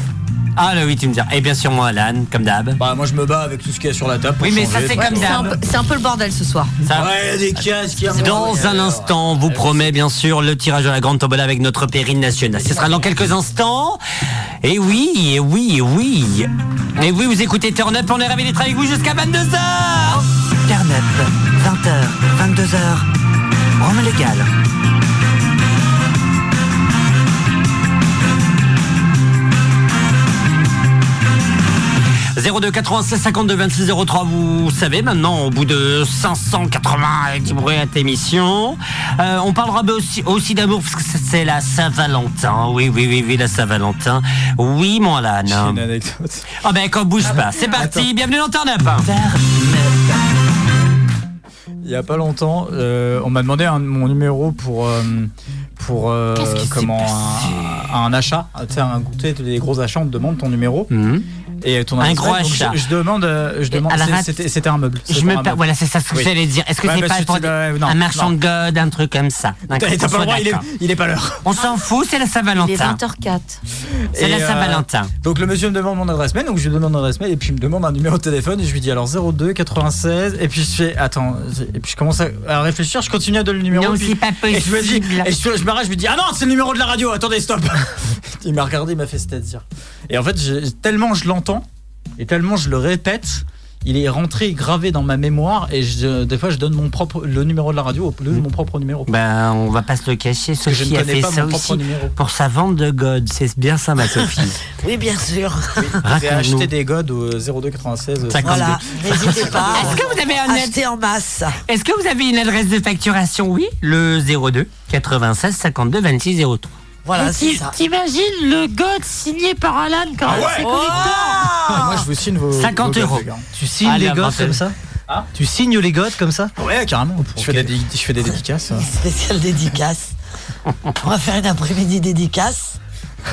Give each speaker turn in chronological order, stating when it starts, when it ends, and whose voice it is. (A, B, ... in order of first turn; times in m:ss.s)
0:00.6-0:02.8 A
0:02.8-0:05.4 B
0:04.4-0:05.6 A
0:05.0-0:06.7 C
0:06.8-0:14.0 A
0:06.9-0:09.7 B
0:08.1-0:08.6 C
0:14.6-0:23.1 A
0:23.8-0:24.5 A
0:32.3-0:45.8 A
0:45.4-0:46.5 B
0:46.6-0:49.5 A
0:47.7-0:48.0 B
0:49.6-0:50.1 B
0:51.8-1:00.9 B
0:56.4-0:57.9 A
1:00.9-1:01.2 A
1:01.6-1:08.4 B
1:02.0-1:02.8 A
1:03.7-1:04.4 A
1:05.1-1:10.6 A
1:09.7-1:11.5 B
1:11.4-1:13.0 A
1:12.6-1:13.6 C
1:14.1-1:31.6 B
1:14.2-1:15.1 A
1:23.7-1:25.3 A
1:32.2-1:39.1 B
1:39.1-1:44.6 A
1:40.6-1:42.1 B
1:44.8-1:45.9 D
1:45.8-1:49.9 B
1:46.0-1:46.7 A
1:48.3-1:50.8 A
1:48.4-1:51.6 D
1:51.7-1:56.7 A
1:57.0-1:57.8 D
1:57.1-2:01.5 E
2:00.2-2:00.7 B
2:00.6-2:02.0 D
2:00.6-2:01.2 C
2:01.6-2:03.4 B
2:02.6-2:03.2 A
2:03.6-2:04.7 F
2:03.8-2:04.6 A
2:05.3-2:06.5 F
2:06.6-2:08.9 B
2:07.3-2:07.6 F
2:08.8-2:10.1 D
2:11.0-2:12.8 D